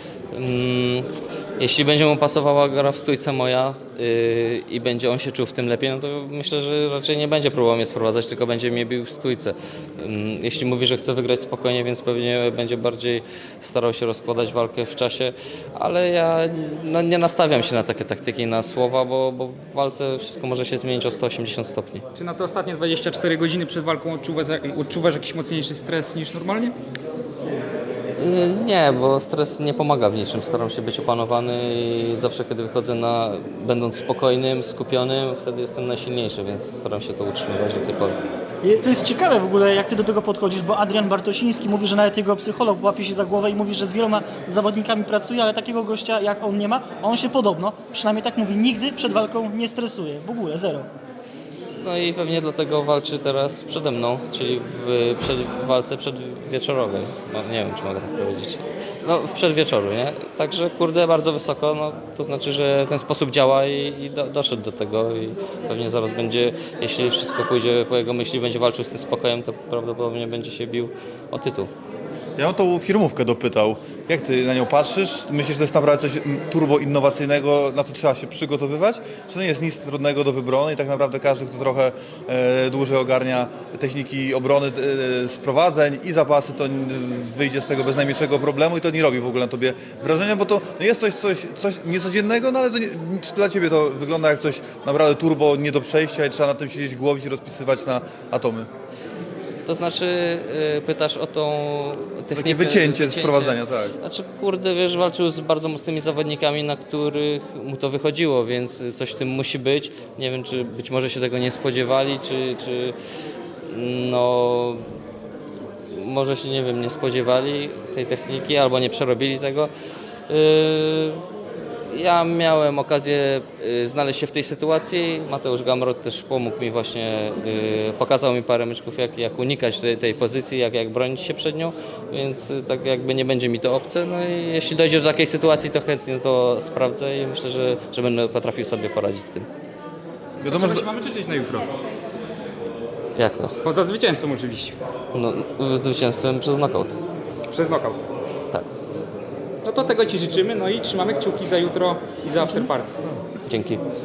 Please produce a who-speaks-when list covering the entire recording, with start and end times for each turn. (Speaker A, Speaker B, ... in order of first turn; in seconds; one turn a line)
Speaker A: 0.3-22.0
Speaker B: 22.2-26.8
Speaker A: 28.2-38.2
Speaker C: 38.6-50.9
Speaker A: 51.8-71.7
Speaker D: 72.4-98.7
Speaker A: 99.7-113.0
Speaker D: 102.3-104.0
Speaker A: 113.7-114.8
Speaker A: 115.9-119.7
Speaker A: 120.3-121.2
Speaker A: 121.9-139.5
Speaker D: 140.4-140.8
Speaker B: 140.5-141.7
Speaker A: 143.2-143.5
Speaker B: 143.6-144.8
Speaker A: 145.1-147.0
Speaker B: 147.5-148.0
Speaker B: 149.6-153.2
Speaker A: 153.5-153.8